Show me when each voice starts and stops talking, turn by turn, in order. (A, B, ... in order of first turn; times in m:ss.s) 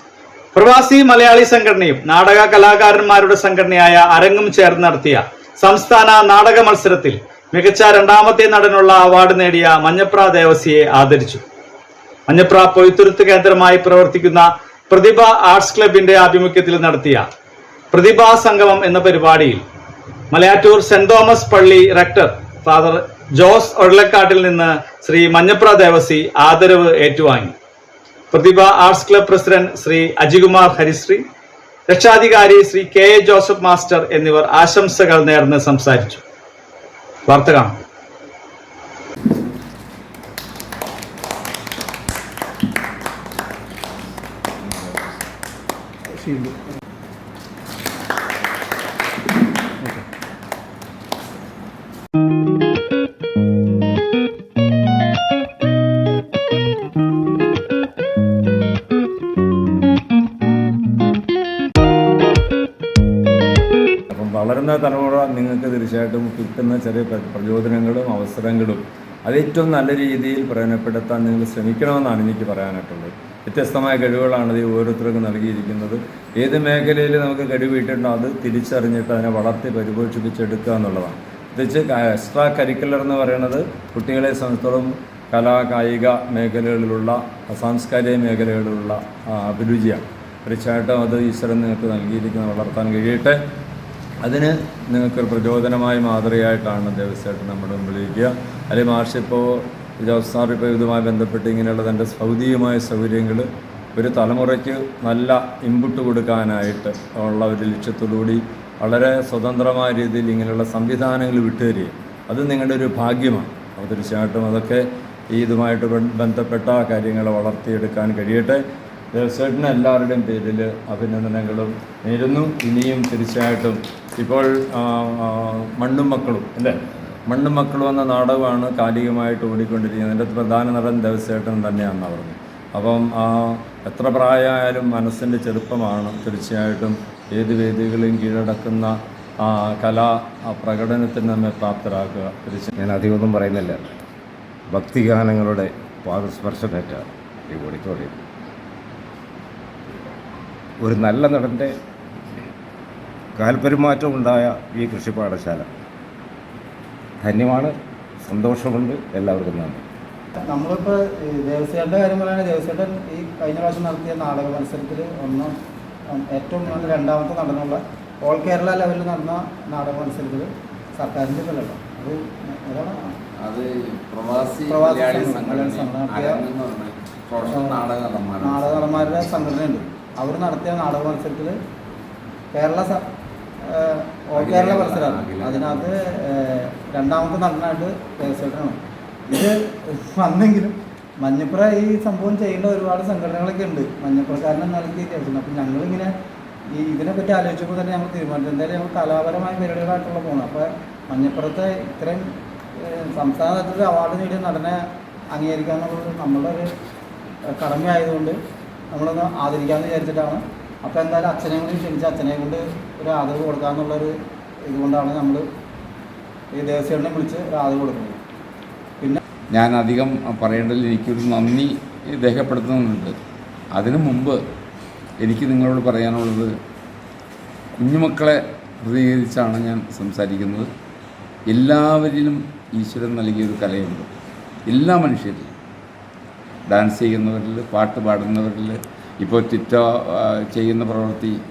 0:00.5-0:11.4 A
0:12.3-0:17.2 A
0:17.9-0:19.6 A
0:20.3-0:27.5 A
0:28.3-0:31.2 A
0:31.9-0:36.2 A
0:37.3-0:37.8 A
0:46.1-0:46.6 B
1:04.1-1:33.4 C
1:34.2-1:58.6 C
1:59.1-2:22.7 C
2:22.8-2:23.9 D
2:24.7-2:28.2 D
2:30.8-2:31.7 D
2:33.4-2:35.7 D
2:37.2-2:39.8 D
2:40.4-2:45.5 B
2:46.1-2:53.2 B
2:53.4-2:59.4 E
2:54.6-2:56.4 B
2:57.5-2:57.8 B
2:58.4-3:01.6 B
3:02.5-3:03.0 B
3:03.6-3:16.1 B
3:04.4-3:05.9 E
3:16.7-3:26.7 B
3:27.5-3:28.4 B
3:28.9-3:34.1 B
3:34.7-3:35.4 B
3:36.6-3:38.2 B
3:39.5-3:43.1 E
3:43.7-3:44.4 E
3:45.2-3:46.5 E
3:47.8-3:50.7 E
3:51.5-3:54.1 E
3:54.7-3:55.5 E
3:56.7-4:01.4 E